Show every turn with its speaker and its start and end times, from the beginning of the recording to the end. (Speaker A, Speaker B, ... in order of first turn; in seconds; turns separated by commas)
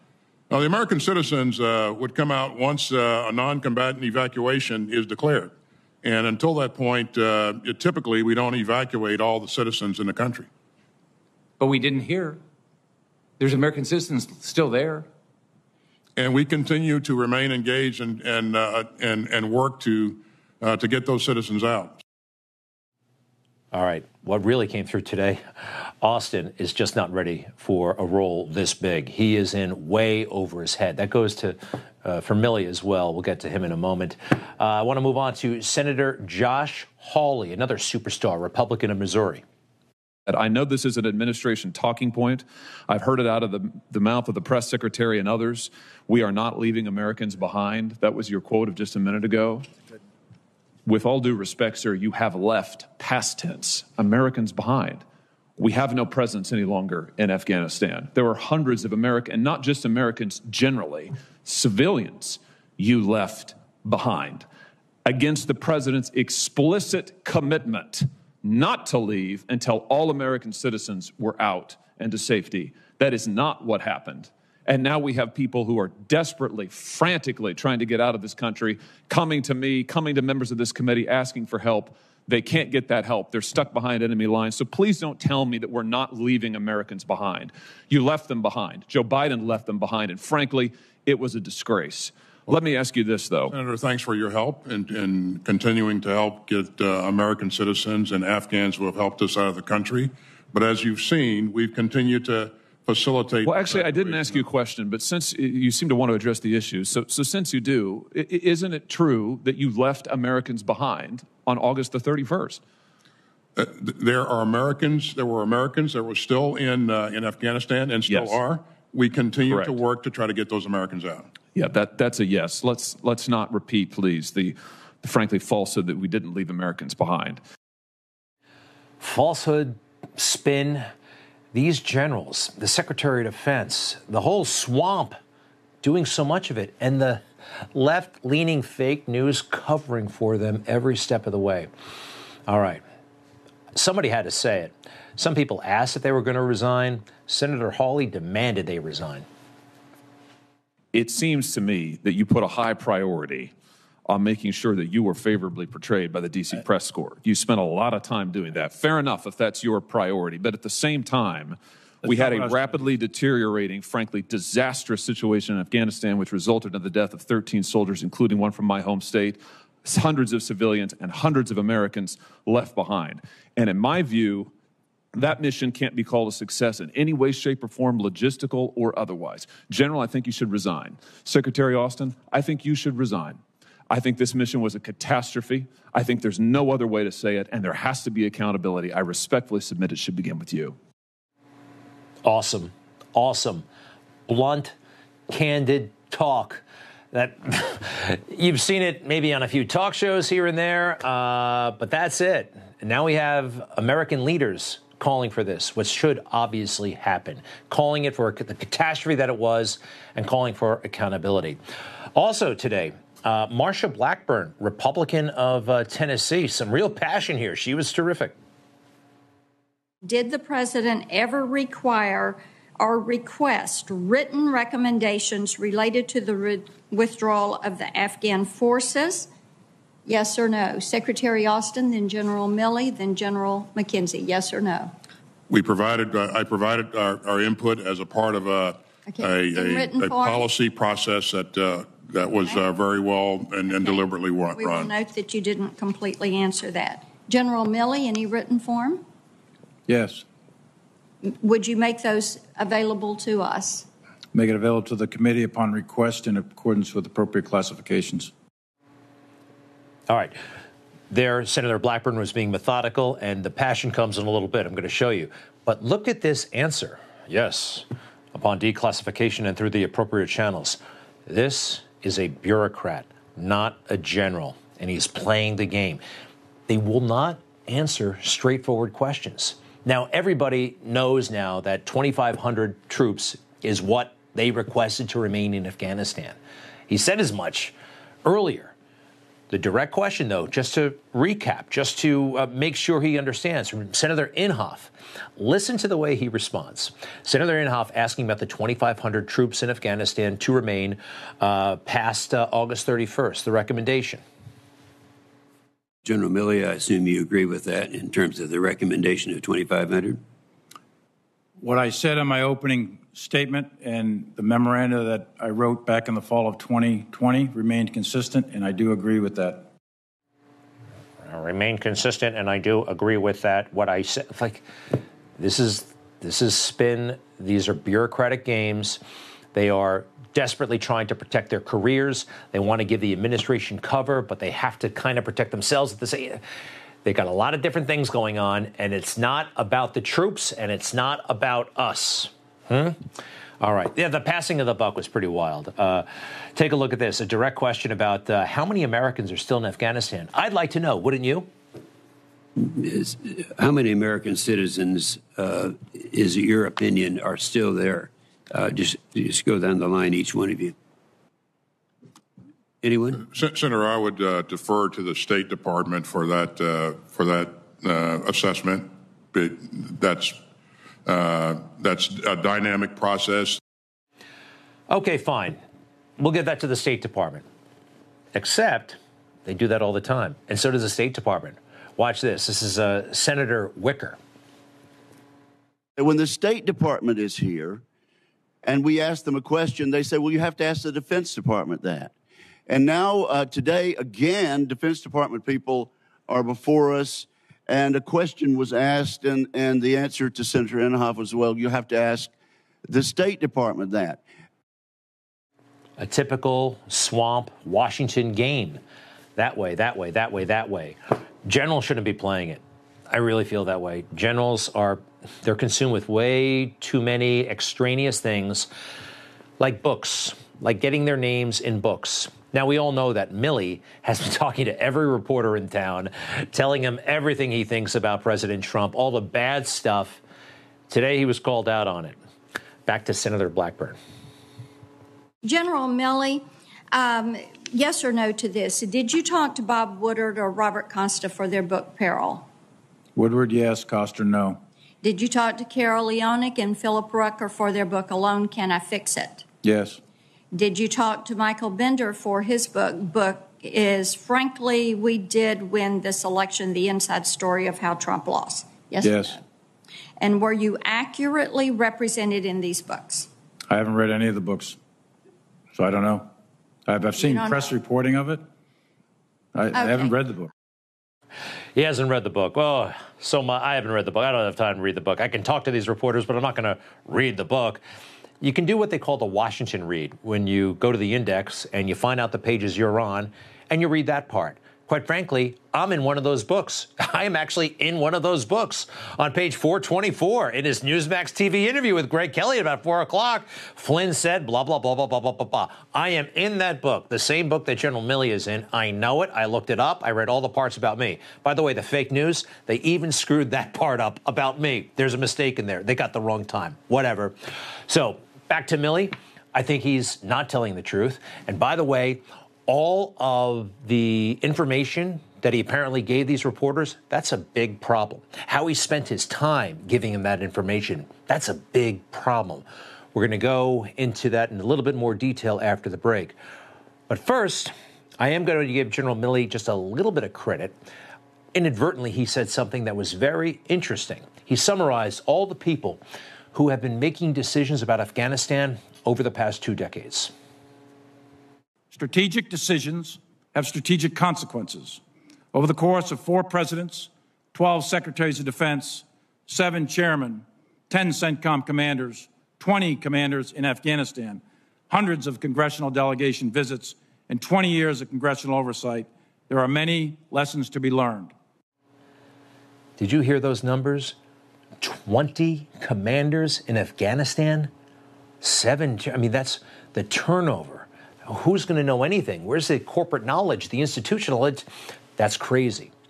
Speaker A: 0.5-10.5, Speaker B: 11.6-12.4, Speaker B: 13.4-15.1, Speaker A: 16.2-22.0, Speaker C: 23.7-25.4, Speaker C: 26.0-39.4, Speaker D: 40.3-49.7, Speaker D: 50.9-55.0, Speaker D: 55.6-64.5, Speaker D: 65.0-93.5, Speaker A: 93.5-104.5, Speaker D: 103.5-112.6, Speaker A: 113.6-121.3, Speaker D: 118.1-118.4, Speaker D: 119.5-119.8, Speaker D: 121.5-127.4, Speaker C: 129.0-130.9, Speaker C: 131.5-135.2, Speaker C: 135.8-137.2, Speaker C: 137.7-141.7, Speaker C: 142.5-142.8, Speaker C: 143.8-149.3, Speaker D: 150.9-153.5, Speaker D: 154.1-174.5, Speaker E: 162.0-162.8, Speaker D: 175.1-190.8, Speaker C: 192.2-193.6, Speaker C: 194.3-194.7, Speaker C: 195.3-211.6, Speaker C: 212.2-218.3, Speaker F: 220.1-229.3, Speaker F: 230.1-234.9, Speaker A: 235.5-244.9, Speaker F: 239.1-240.5, Speaker F: 244.6-249.0, Speaker E: 249.9-250.2, Speaker F: 251.2-253.9, Speaker E: 254.3-258.3, Speaker C: 260.1-260.4, Speaker C: 261.1-276.0, Speaker C: 276.7-286.4, Speaker C: 286.9-287.7, Speaker C: 288.2-288.7, Speaker C: 289.5-304.2, Speaker G: 306.1-310.2, Speaker E: 311.6-319.7, Speaker C: 321.2-324.6, Speaker C: 325.4-329.0, Speaker C: 329.5-336.4, Speaker C: 337.0-343.0, Speaker C: 343.6-351.5, Speaker G: 352.6-360.7, Speaker G: 362.8-363.2, Speaker A: 363.2-370.4, Speaker A: 371.1-373.6, Speaker C: 374.9-375.6, Speaker C: 376.2-377.4, Speaker C: 378.3-384.2, Speaker H: 386.0-387.8, Speaker H: 388.6-392.1, Speaker H: 392.7-402.3, Speaker H: 402.9-404.2, Speaker C: 406.0-408.8, Speaker C: 409.4-418.7, Speaker C: 419.6-430.2, Speaker C: 430.9-432.2, Speaker C: 432.9-434.0, Speaker F: 435.4-442.5, Speaker E: 443.1-444.6, Speaker F: 445.0-449.4, Speaker E: 449.6-450.0, Speaker F: 450.5-459.4, Speaker E: 459.0-459.4, Speaker F: 460.2-463.3, Speaker E: 463.7-464.8, Speaker E: 465.7-466.3, Speaker E: 466.9-468.4, Speaker F: 467.2-467.7, Speaker E: 469.6-470.5, Speaker F: 469.7-470.1, Speaker C: 471.8-477.8, Speaker C: 478.4-507.3, Speaker C: 507.9-526.4, Speaker C: 527.1-530.8, Speaker C: 531.5-536.0, Speaker C: 536.5-540.3, Speaker E: 541.9-545.0, Speaker E: 545.5-561.3, Speaker C: 563.0-564.2, Speaker C: 564.8-567.7, Speaker C: 568.4-574.7, Speaker C: 575.2-575.9